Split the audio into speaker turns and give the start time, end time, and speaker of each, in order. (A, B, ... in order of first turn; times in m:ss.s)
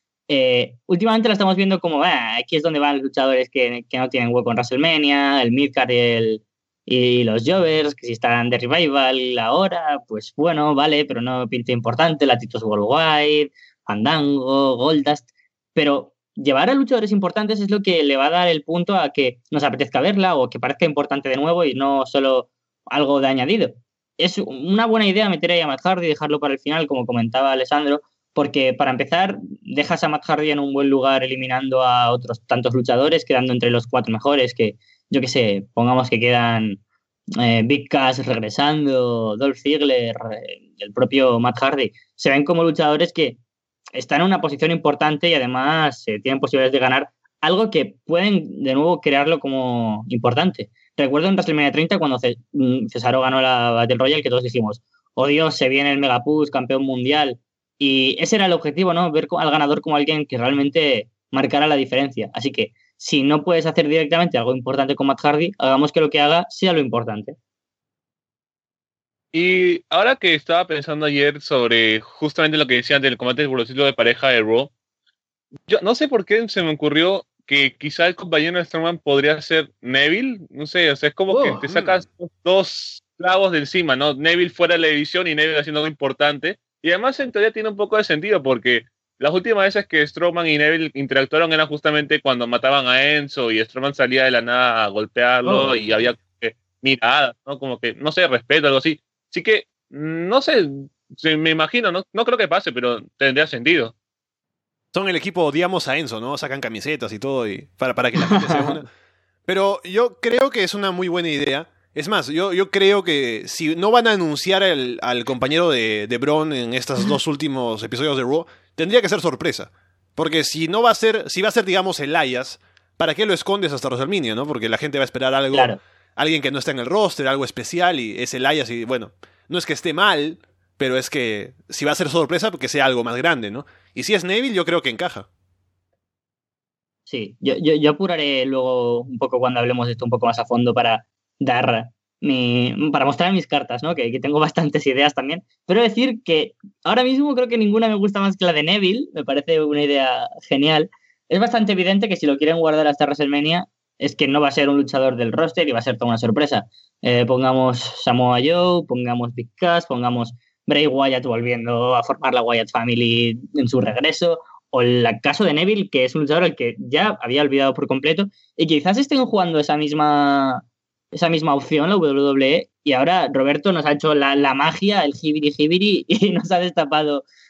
0:00.3-0:36.8 A
0:37.4-0:43.4 A
0:43.9-1:07.4 A
1:09.3-1:14.7 B
1:15.7-1:43.9 B
1:21.3-1:21.6 A
1:21.6-1:22.0 C
1:35.4-1:35.8 A
1:44.9-1:48.9 C
1:48.2-1:48.7 A
1:49.5-2:15.2 C
2:05.5-2:05.8 A
2:17.1-2:57.2 A